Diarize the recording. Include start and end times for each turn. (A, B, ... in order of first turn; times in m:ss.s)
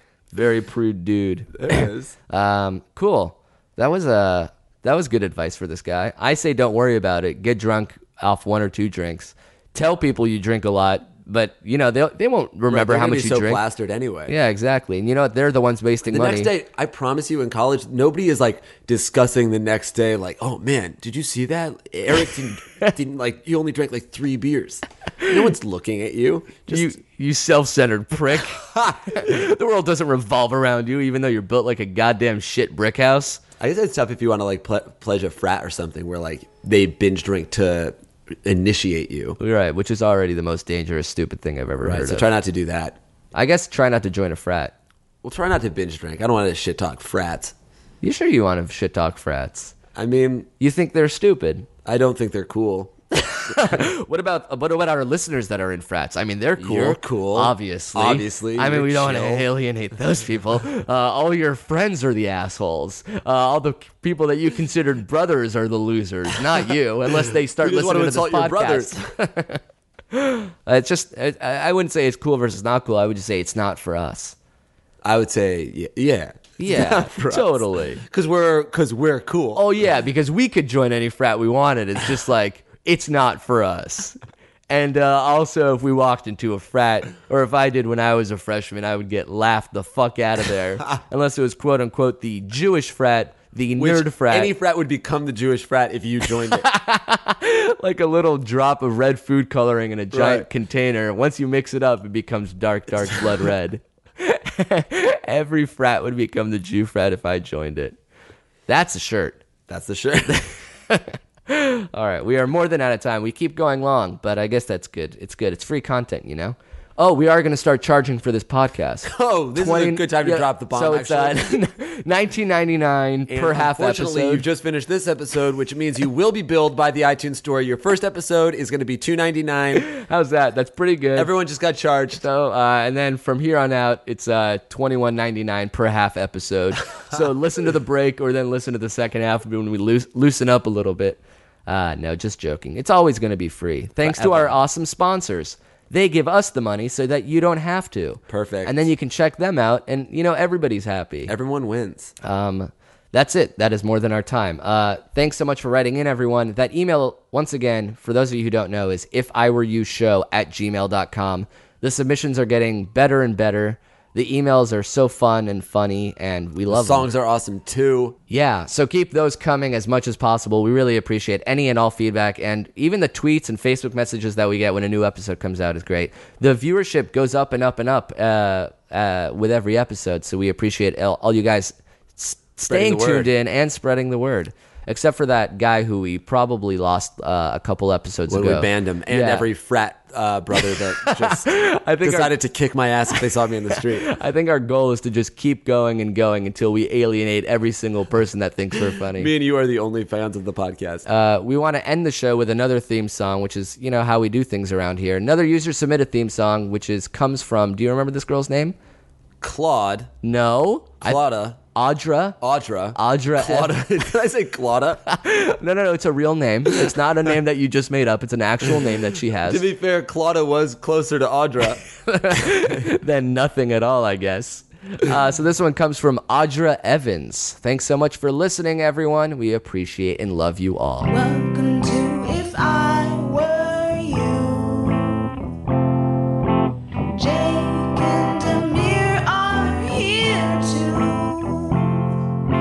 0:00.3-0:13.6 A
0:01.5-0:02.1 B
0:12.7-0:14.3 B
0:14.3-0:16.5 A
0:16.1-0:26.9 B
0:26.7-0:33.4 A
0:28.6-0:29.2 B
0:33.6-0:39.4 B
0:39.4-0:42.3 A
0:41.8-0:43.0 B
0:43.3-0:44.7 A
0:45.2-0:47.5 B
0:48.0-0:49.7 A
0:49.9-0:50.5 B
0:50.6-0:51.7 A
0:51.8-0:52.9 B
0:53.1-1:09.6 A
0:56.6-0:59.5 B
1:07.3-1:09.1 B
1:10.1-1:14.3 A
1:15.0-1:19.7 B
1:16.6-1:18.0 A
1:19.5-1:24.2 A
1:24.7-1:34.5 A
1:33.8-1:36.7 B
1:36.5-1:48.0 A
1:40.1-1:40.5 B
1:48.7-1:49.4 A
1:49.7-1:50.5 B
1:50.9-2:04.4 A
1:59.1-2:01.6 B
2:03.3-2:09.9 B
2:09.8-2:11.3 A
2:11.1-2:12.2 B
2:12.2-2:31.3 A
2:24.0-2:24.6 B
2:28.3-2:28.9 B
2:31.2-2:32.1 B
2:32.2-2:47.1 A
2:46.7-2:48.2 B
2:48.3-3:09.5 A
3:02.7-3:03.3 B
3:08.3-3:14.1 B
3:11.0-3:12.3 A
3:13.7-3:19.3 A
3:19.0-3:21.0 B
3:21.0-3:28.7 A
3:29.4-3:30.1 B
3:30.2-3:31.2 A
3:31.0-3:31.6 B
3:31.7-3:32.4 A
3:32.4-3:35.0 B
3:32.9-3:33.9 A
3:35.0-3:39.6 A
3:39.4-3:41.8 B
3:42.0-3:51.1 A
3:51.1-3:55.3 C
3:57.1-4:02.0 C